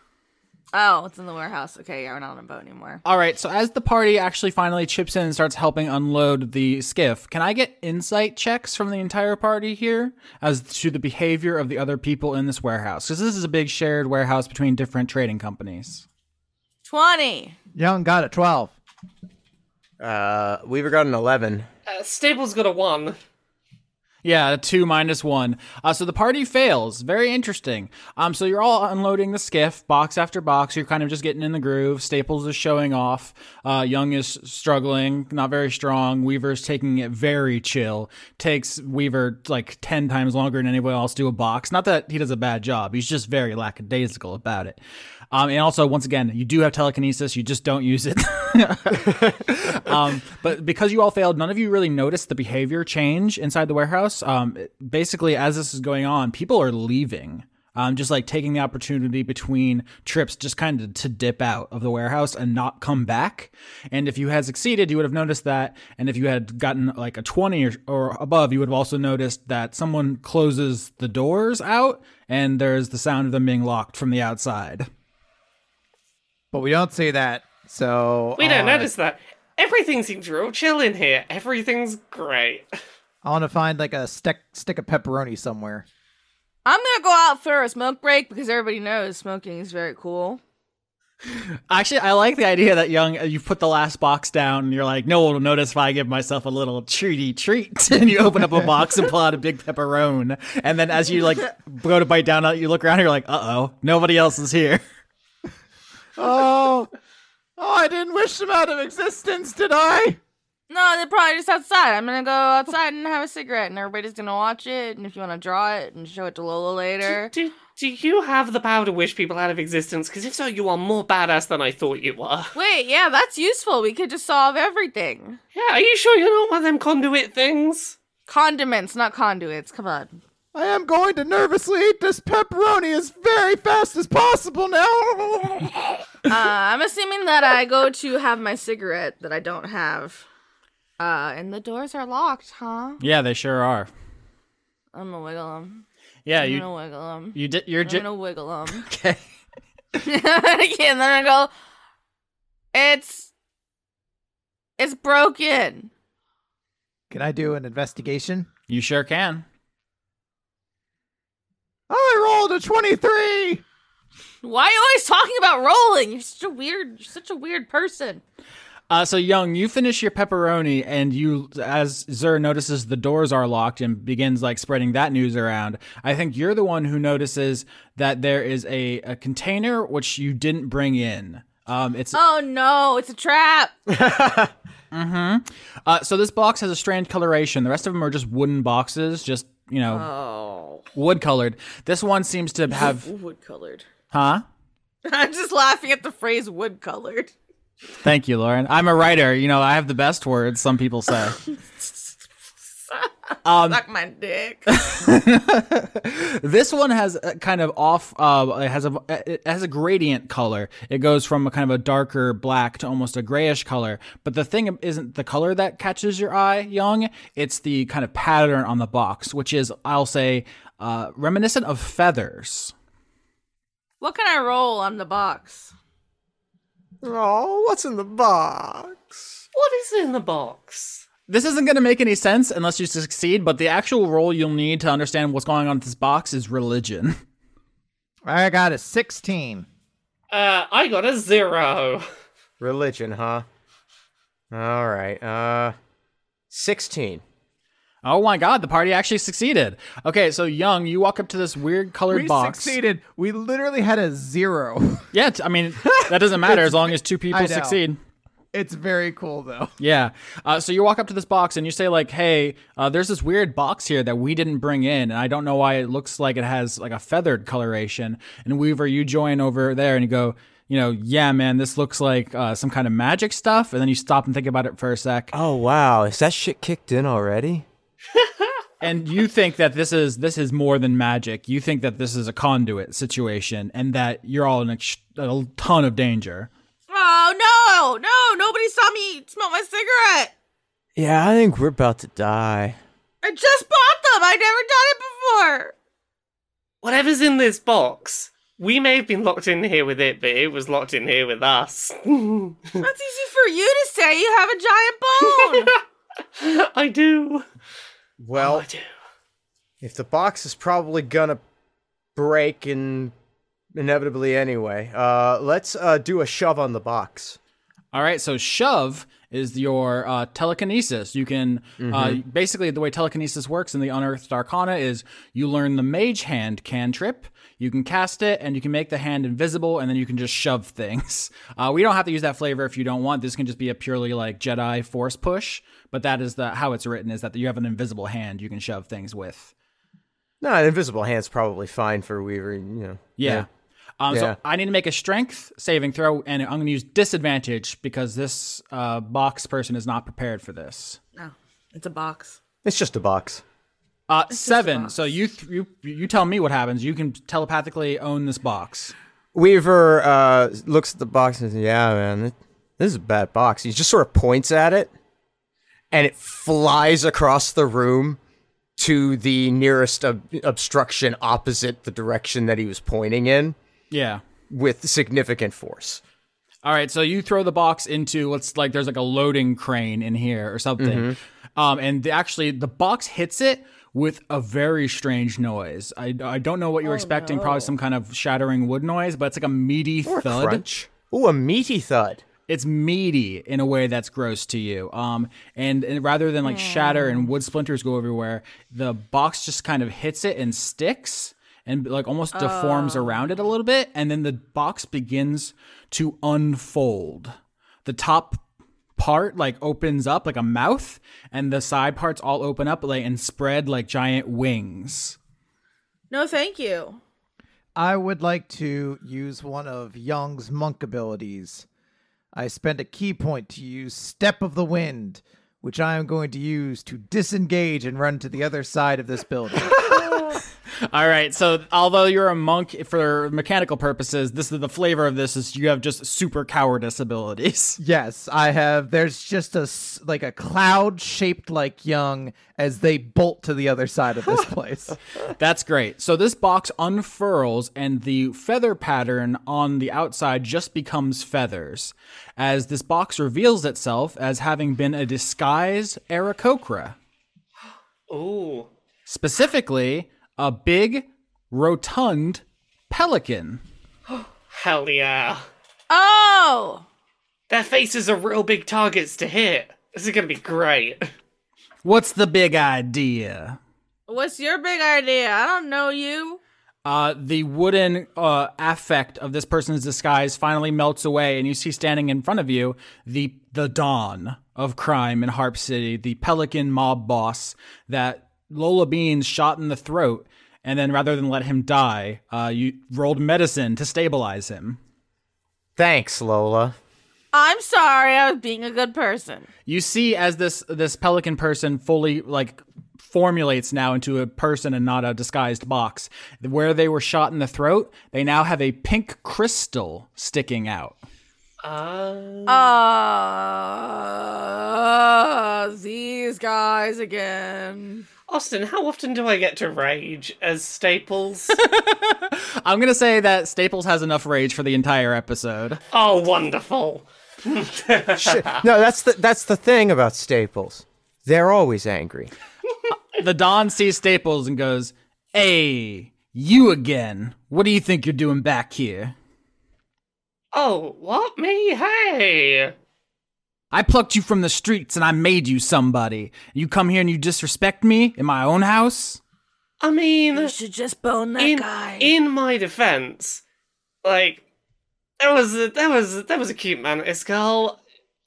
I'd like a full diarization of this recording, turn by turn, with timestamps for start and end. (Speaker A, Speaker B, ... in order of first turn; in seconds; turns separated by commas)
Speaker A: 0.7-3.0, Speaker B: 3.0-16.1, Speaker A: 16.9-17.6, Speaker C: 17.7-18.7, Speaker D: 20.0-21.7, Speaker E: 21.9-23.2, Speaker B: 24.2-44.8, Speaker B: 45.3-74.9, Speaker C: 76.5-78.9, Speaker E: 78.4-82.7, Speaker C: 83.2-85.9, Speaker A: 86.6-90.4, Speaker B: 91.7-104.8, Speaker C: 106.2-106.9, Speaker C: 107.6-110.2, Speaker A: 110.7-117.3, Speaker E: 117.0-122.5, Speaker A: 122.5-125.4, Speaker E: 125.5-128.0, Speaker A: 128.3-130.2, Speaker C: 130.5-136.1, Speaker A: 136.3-140.2, Speaker A: 141.0-143.0, Speaker B: 143.0-143.9, Speaker A: 144.9-145.8, Speaker B: 146.2-146.7, Speaker A: 146.4-148.9, Speaker B: 147.3-148.1, Speaker B: 148.7-149.2, Speaker A: 149.9-151.5, Speaker A: 152.7-153.3, Speaker A: 154.8-155.9, Speaker C: 157.1-158.5, Speaker B: 158.7-159.4, Speaker C: 161.9-163.6, Speaker A: 164.4-168.2, Speaker B: 168.9-182.2, Speaker A: 182.1-183.7, Speaker D: 183.9-184.5, Speaker B: 184.9-190.1, Speaker A: 189.9-190.9, Speaker B: 190.9-193.1, Speaker A: 192.7-193.9, Speaker B: 194.1-194.4, Speaker A: 195.1-197.3, Speaker B: 198.0-201.4, Speaker A: 201.5-201.9, Speaker A: 202.9-204.8, Speaker B: 203.4-203.8, Speaker B: 204.7-222.7, Speaker A: 224.0-225.7, Speaker D: 227.0-229.4, Speaker E: 229.5-231.1, Speaker B: 231.3-237.2, Speaker C: 238.2-239.7, Speaker E: 240.3-242.1, Speaker D: 242.6-243.4, Speaker D: 244.5-245.7, Speaker D: 246.5-247.2, Speaker B: 248.0-252.8, Speaker C: 252.1-255.1, Speaker B: 255.1-258.0, Speaker C: 256.1-257.8, Speaker C: 258.5-259.7, Speaker B: 259.8-275.3, Speaker D: 275.3-277.7, Speaker B: 278.8-286.5, Speaker A: 286.9-290.3, Speaker D: 290.9-292.8, Speaker A: 293.2-295.7, Speaker E: 296.8-302.8, Speaker A: 302.8-305.7, Speaker E: 305.3-305.8, Speaker E: 306.4-307.4, Speaker D: 308.2-308.7, Speaker E: 308.4-308.9, Speaker D: 309.8-311.4, Speaker D: 312.2-313.1, Speaker D: 313.7-317.4, Speaker B: 317.9-339.5, Speaker D: 321.8-322.2, Speaker D: 340.4-343.4, Speaker B: 343.2-343.5, Speaker B: 344.0-351.0, Speaker D: 344.1-344.4, Speaker A: 351.1-352.4, Speaker D: 352.6-353.4, Speaker B: 354.1-358.9, Speaker A: 354.3-355.1, Speaker D: 359.4-364.9, Speaker D: 365.9-368.2, Speaker D: 368.8-373.6, Speaker B: 373.9-374.2, Speaker D: 374.5-376.0, Speaker B: 376.6-390.6, Speaker D: 380.8-381.2, Speaker A: 386.8-387.7, Speaker D: 390.1-392.2, Speaker B: 392.5-408.4, Speaker A: 396.4-397.3, Speaker A: 402.3-403.2, Speaker B: 409.0-415.2, Speaker A: 416.1-417.0, Speaker C: 417.8-421.7, Speaker C: 422.4-429.8, Speaker B: 429.9-437.8, Speaker C: 437.8-444.9, Speaker B: 445.4-457.0, Speaker E: 458.1-458.7, Speaker B: 459.1-463.6, Speaker E: 464.5-465.4, Speaker A: 465.9-466.9, Speaker E: 467.5-471.1, Speaker B: 471.8-473.6, Speaker A: 474.1-476.4, Speaker B: 476.9-494.8, Speaker D: 495.8-496.8, Speaker A: 497.3-499.5, Speaker B: 499.7-511.0, Speaker E: 511.6-512.8, Speaker A: 512.5-518.0, Speaker E: 518.3-521.6, Speaker B: 521.5-525.8, Speaker E: 525.9-528.6, Speaker D: 528.2-532.3, Speaker B: 533.1-539.1, Speaker E: 540.5-542.7, Speaker B: 543.7-549.2, Speaker E: 549.8-550.5, Speaker A: 550.3-552.1, Speaker E: 551.4-553.4, Speaker E: 554.0-554.4, Speaker E: 555.2-557.8